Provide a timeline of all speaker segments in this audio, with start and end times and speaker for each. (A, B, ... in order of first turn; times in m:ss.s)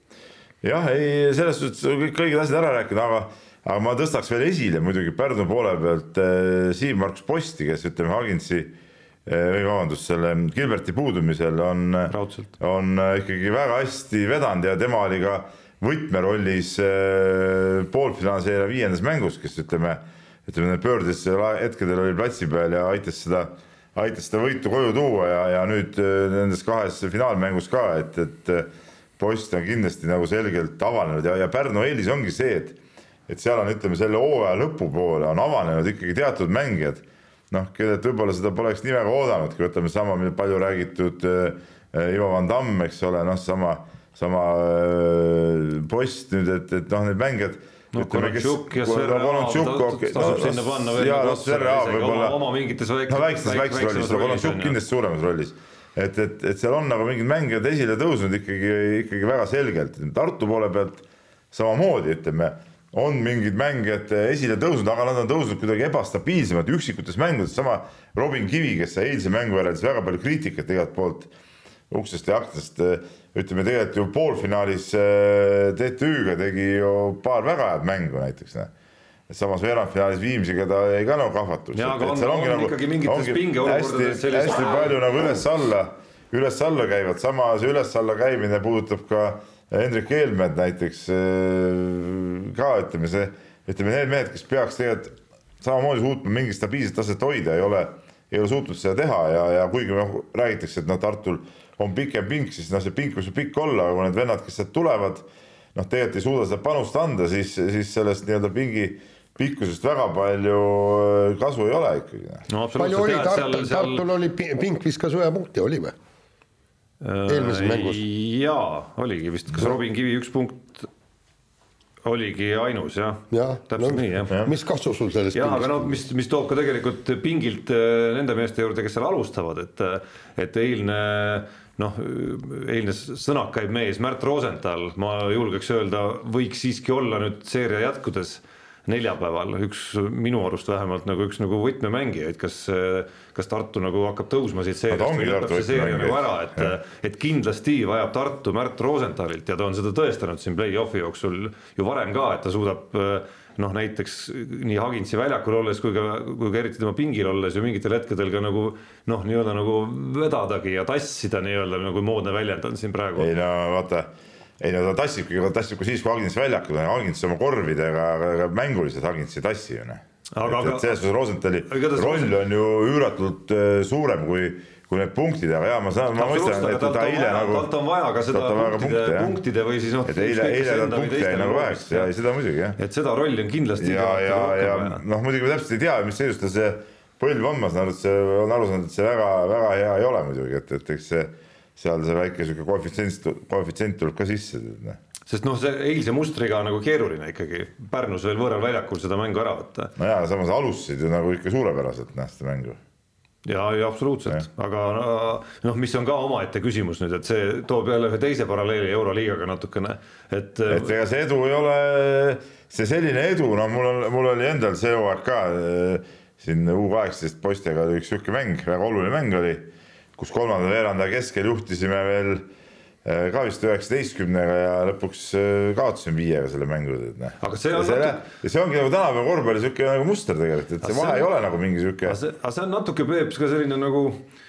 0:00.6-0:08.7 A
0:09.3-0:28.7 A
0:12.1-0:12.5 B
0:29.2-0:52.4 A
0:47.9-0:54.8 B
0:53.1-1:11.3 A
1:11.9-1:18.7 A
1:19.3-1:52.4 A
1:21.8-1:25.0 B
1:52.5-1:54.0 B
1:52.8-1:56.0 C
1:57.0-2:00.9 B
1:57.3-1:58.0 C
2:02.0-2:04.4 B
2:03.3-2:06.0 C
2:05.3-2:43.3 B
2:24.9-2:26.7 A
2:43.2-2:44.1 A
2:44.6-2:57.7 A
2:50.4-2:51.0 B
2:51.7-2:52.4 B
2:56.2-3:02.1 B
2:58.3-2:59.4 A
3:00.1-3:02.8 A
3:02.8-3:05.0 B
3:03.8-3:15.0 A
3:15.3-3:19.9 B
3:20.0-3:22.8 A
3:23.4-3:30.9 B
3:30.7-3:42.4 A
3:43.0-3:52.2 A
3:47.4-3:48.2 B
3:50.8-3:51.3 B
3:52.0-3:54.2 B